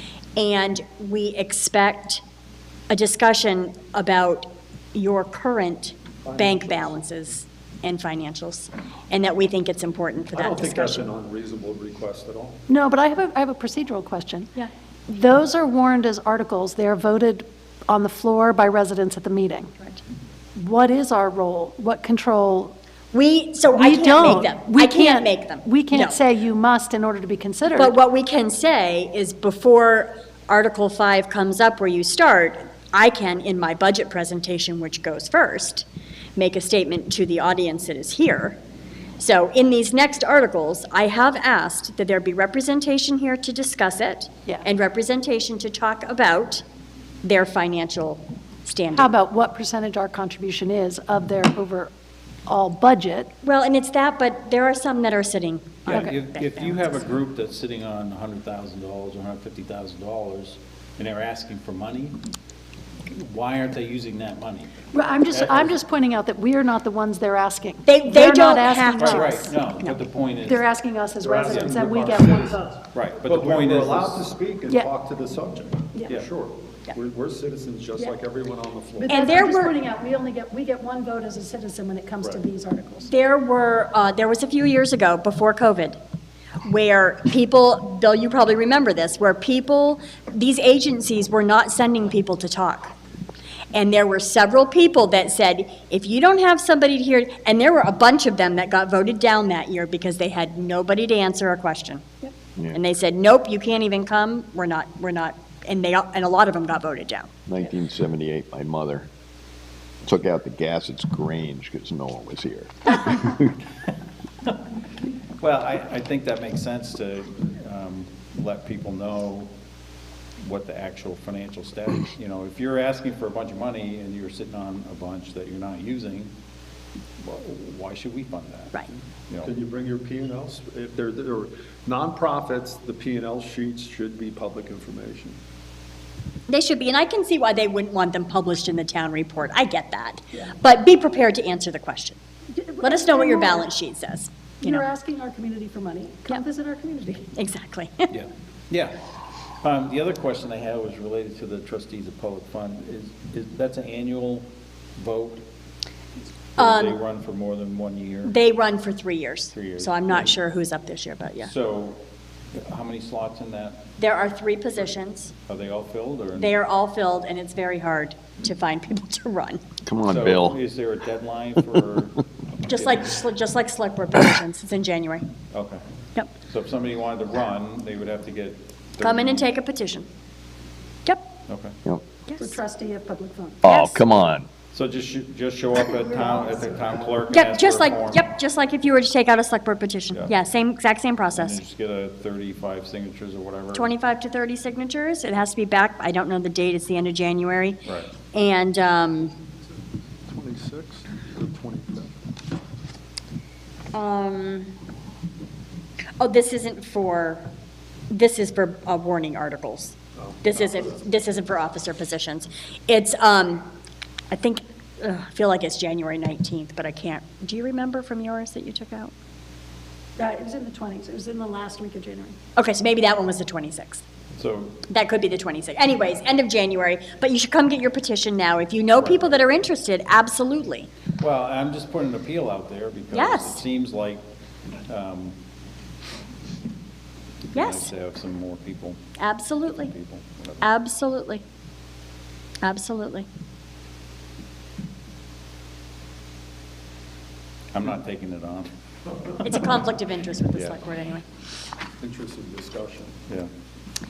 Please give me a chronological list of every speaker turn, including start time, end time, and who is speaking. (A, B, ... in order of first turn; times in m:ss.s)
0:00.4-0:02.2 A
0:02.9-0:11.1 A
0:06.2-0:06.7 B
0:10.3-0:12.6 B
0:12.7-0:14.5 C
0:15.1-0:19.7 C
0:20.6-0:22.7 C
0:23.1-0:26.2 A
0:23.7-0:27.9 C
0:27.7-0:35.9 A
0:36.4-0:38.6 A
0:39.2-0:46.6 A
0:47.2-0:49.1 A
0:49.0-0:51.9 C
0:52.5-0:53.3 C
0:53.4-0:56.8 A
0:55.9-1:02.2 D
1:03.1-1:04.8 D
1:04.9-1:09.5 C
1:05.3-1:05.8 D
1:07.9-1:09.9 A
1:08.9-1:10.6 D
1:10.4-1:12.6 C
1:11.2-1:19.3 B
1:11.5-1:11.8 D
1:12.9-1:14.2 D
1:19.0-1:23.1 C
1:19.1-1:19.8 A
1:23.1-1:26.0 A
1:26.6-1:32.9 A
1:33.7-1:42.2 A
1:42.7-1:47.3 A
1:47.5-1:49.1 E
1:50.0-1:53.5 E
1:55.4-1:59.5 D
2:00.4-2:06.3 D
2:07.2-2:09.5 D
2:09.4-2:15.4 B
2:16.5-2:22.2 A
2:22.5-2:23.6 C
2:22.8-2:24.8 A
2:24.6-2:27.3 C
2:27.4-2:28.1 A
2:28.1-2:29.0 D
2:29.6-2:35.4 D
2:36.6-2:37.0 A
2:36.6-2:38.3 D
2:38.2-2:41.5 A
2:39.5-2:40.4 D
2:41.4-2:42.0 D
2:42.5-2:43.8 D
2:44.0-2:45.3 A
2:45.5-2:46.5 D
2:46.4-2:49.6 A
2:49.8-2:50.6 E
2:50.0-2:53.1 D
2:52.7-2:55.3 A
2:55.5-2:55.8 D
2:56.4-2:59.5 D
2:59.0-3:00.1 A
3:01.5-3:01.8 D
3:02.4-3:03.6 C
3:03.6-3:04.5 E
3:03.6-3:04.1 A
3:04.7-3:08.2 D
3:06.2-3:06.7 C
3:07.3-3:11.6 A
3:11.3-3:13.9 D
3:13.7-3:19.3 A
3:17.8-3:18.1 D
3:20.3-3:22.2 B
3:23.9-3:24.7 A
3:26.2-3:27.5 A
3:28.1-3:33.7 A
3:34.3-3:39.1 A
3:40.2-3:42.4 C
3:42.6-3:44.0 A
3:44.3-3:44.8 D
3:44.9-3:50.9 A
3:49.0-3:49.3 D
3:51.2-3:54.2 D
3:53.1-3:53.6 A
3:54.9-3:55.4 D
3:57.5-3:59.0 D
3:57.6-3:57.9 A
3:59.2-3:59.9 A
3:59.8-4:00.7 D
4:00.6-4:01.4 A
4:02.6-4:03.3 A
4:07.7-4:08.7 D
4:09.3-4:09.6 D
4:09.4-4:11.2 A
4:12.0-4:13.2 B